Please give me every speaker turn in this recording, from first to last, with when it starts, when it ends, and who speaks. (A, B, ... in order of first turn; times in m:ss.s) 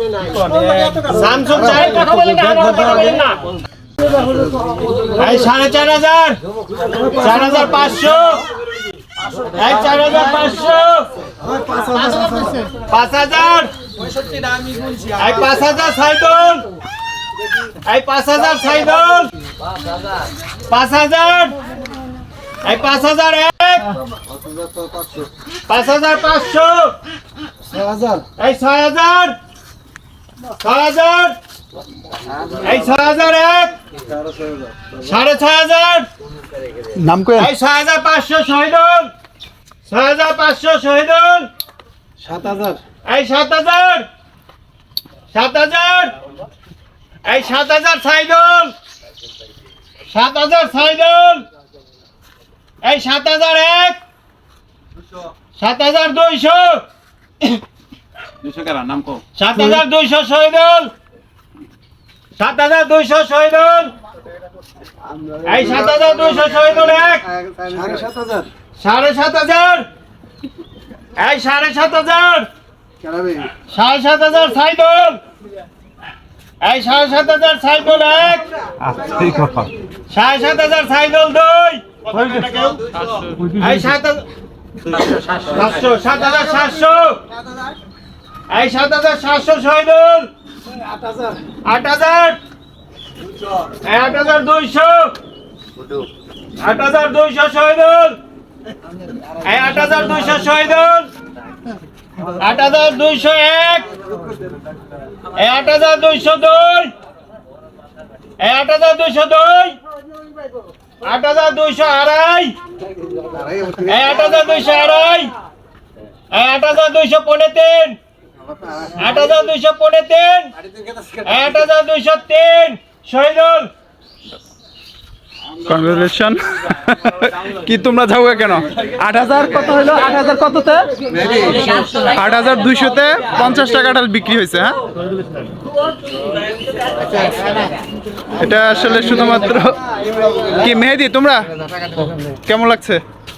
0:00.3-0:03.0 A
0:00.4-0:03.4 B
0:05.1-0:06.4 B
0:07.0-0:08.4 B
0:09.5-0:11.1 B
0:11.4-0:12.7 A
0:12.8-0:13.7 B
0:14.3-0:15.0 A
0:15.2-0:16.7 B
0:17.8-0:19.3 B
0:20.7-0:21.6 B
0:22.6-0:24.0 B
0:24.3-0:25.3 A
0:25.7-0:27.0 B
0:27.6-0:28.2 A
0:28.4-0:29.4 B
0:30.5-0:31.4 B
0:32.3-0:32.6 A
0:32.6-0:33.8 B
0:34.1-0:34.9 A
0:34.9-0:36.1 B
0:36.9-0:37.5 C
0:37.4-0:39.1 B
0:39.8-0:41.5 B
0:42.2-0:42.8 A
0:43.0-0:44.1 B
0:45.3-0:46.2 B
0:47.2-0:48.8 B
0:50.1-0:51.5 B
0:52.8-0:54.0 B
0:55.6-0:56.8 B
0:58.4-0:59.2 A
0:59.3-1:00.9 B
1:02.4-1:04.0 B
1:05.0-1:08.5 A
1:05.4-1:07.3 B
1:08.8-1:09.9 B
1:11.1-1:12.5 B
1:13.0-1:13.5 A
1:13.7-1:15.2 B
1:16.6-1:18.5 B
1:18.8-1:19.7 C
1:20.1-1:22.0 B
1:22.1-1:23.8 C
1:23.6-1:24.3 B
1:25.4-1:27.3 B
1:28.5-1:30.3 B
1:30.8-1:31.4 A
1:31.6-1:32.4 B
1:33.8-1:35.2 B
1:36.6-1:38.2 B
1:39.4-1:41.1 B
1:42.3-1:43.9 B
1:45.3-1:46.9 B
1:48.4-1:49.8 B
1:51.0-1:52.6 B
1:53.1-1:53.9 A
1:53.8-1:55.3 B
1:56.3-1:58.0 B
1:58.5-1:59.0 A
1:59.0-2:00.5 B
2:00.6-2:01.3 A
2:01.2-2:03.7 B
2:05.5-2:10.9 C
2:11.1-2:11.7 A
2:11.8-2:14.8 C
2:18.3-2:19.8 C
2:20.1-2:20.5 A
2:20.5-2:21.5 C
2:22.2-2:23.0 C